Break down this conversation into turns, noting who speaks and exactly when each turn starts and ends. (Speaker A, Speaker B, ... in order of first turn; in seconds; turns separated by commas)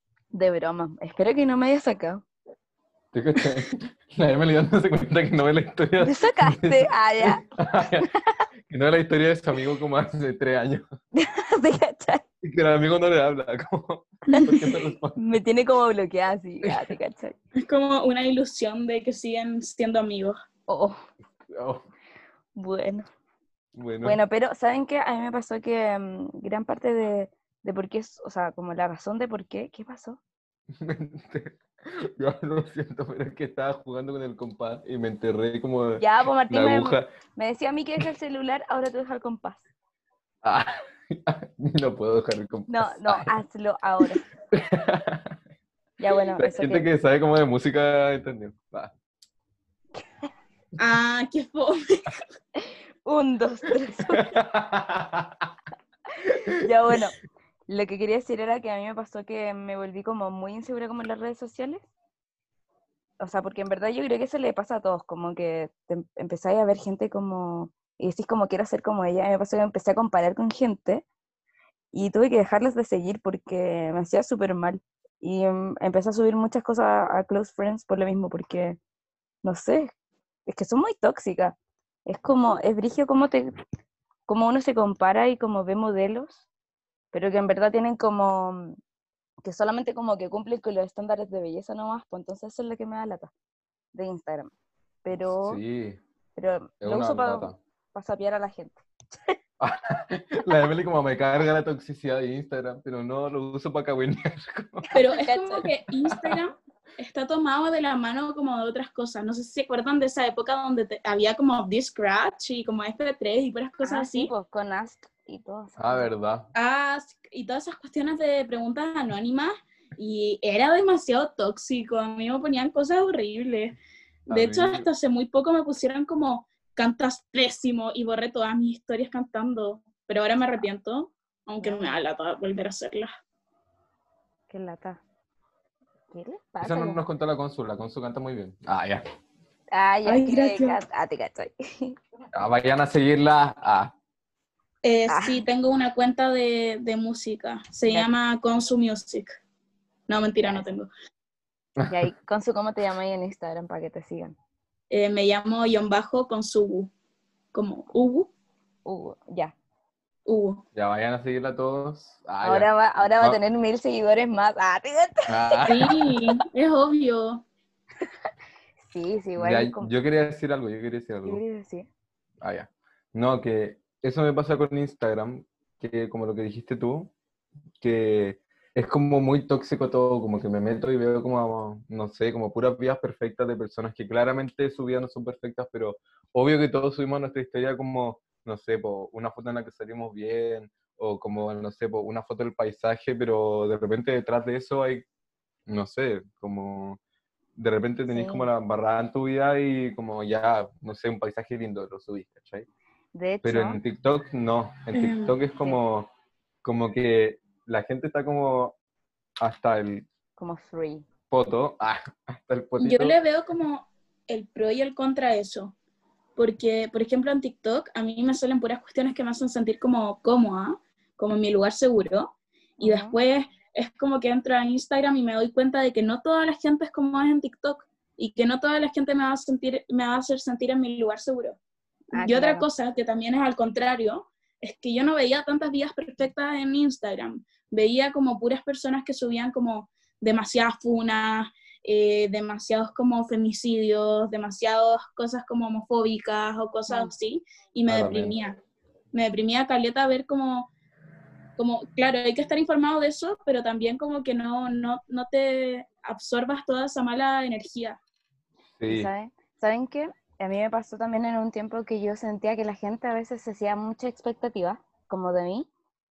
Speaker A: 0.3-2.2, Speaker B: 3.1-8.1, Speaker A: 6.0-8.4, Speaker B: 8.7-10.8, Speaker A: 11.1-12.2, Speaker B: 12.4-15.2, Speaker C: 14.3-14.6, Speaker A: 15.2-17.3, Speaker B: 16.6-16.9, Speaker C: 17.6-20.4, Speaker A: 20.7-21.0, Speaker B: 21.5-21.8, Speaker A: 22.6-23.1, Speaker B: 23.8-24.2, Speaker A: 24.0-30.2, Speaker B: 30.8-37.1, Speaker A: 36.0-39.6, Speaker B: 40.4-43.3, Speaker A: 42.7-44.2, Speaker B: 44.5-45.4, Speaker A: 46.0-46.9, Speaker B: 46.4-48.9, Speaker C: 50.8-52.2, Speaker A: 52.6-54.3, Speaker B: 54.0-55.5, Speaker B: 56.3-57.0, Speaker A: 56.6-57.2, Speaker A: 57.7-61.9, Speaker A: 63.2-71.0, Speaker A: 71.9-78.8, Speaker A: 79.4-79.9, Speaker A: 80.5-83.5, Speaker A: 84.3-86.4, Speaker A: 87.1-88.8, Speaker A: 89.4-93.3, Speaker A: 93.9-94.5, Speaker A: 95.0-95.6, Speaker B: 95.2-96.0, Speaker A: 96.3-99.3, Speaker B: 96.8-97.6, Speaker B: 99.6-104.9, Speaker A: 104.9-105.7, Speaker C: 104.9-114.3, Speaker B: 106.0-106.4, Speaker A: 113.8-116.1, Speaker B: 115.8-116.5, Speaker C: 116.5-123.8, Speaker C: 124.3-133.1, Speaker B: 124.3-124.9, Speaker A: 131.6-132.0, Speaker A: 134.5-135.0, Speaker A: 136.1-137.0, Speaker B: 136.6-139.0, Speaker A: 139.7-141.9, Speaker C: 140.1-140.8, Speaker B: 142.3-143.9, Speaker C: 144.8-149.3, Speaker A: 145.1-145.4, Speaker C: 150.1-150.9, Speaker A: 151.9-154.3, Speaker C: 154.9-156.9, Speaker C: 157.5-158.3, Speaker A: 158.8-159.5, Speaker C: 160.2-160.6, Speaker B: 160.7-163.4, Speaker A: 162.4-165.9, Speaker B: 165.3-166.1, Speaker C: 165.7-167.4, Speaker A: 168.8-169.9, Speaker B: 169.4-171.4, Speaker A: 171.2-171.9, Speaker B: 172.4-177.1, Speaker B: 177.8-195.1, Speaker B: 195.7-197.0, Speaker B: 197.6-202.7, Speaker A: 198.1-198.5, Speaker A: 203.1-203.8, Speaker B: 203.4-206.1, Speaker C: 204.9-205.3, Speaker B: 206.6-208.8, Speaker B: 209.4-210.1, Speaker A: 210.4-211.0, Speaker B: 211.3-213.2, Speaker C: 212.8-215.7, Speaker C: 216.3-231.6, Speaker A: 222.8-223.1, Speaker A: 232.1-232.7, Speaker C: 232.2-248.6, Speaker A: 246.9-247.1, Speaker B: 247.9-248.3, Speaker C: 249.1-250.7, Speaker C: 251.6-258.0, Speaker B: 258.8-259.1, Speaker A: 258.9-265.7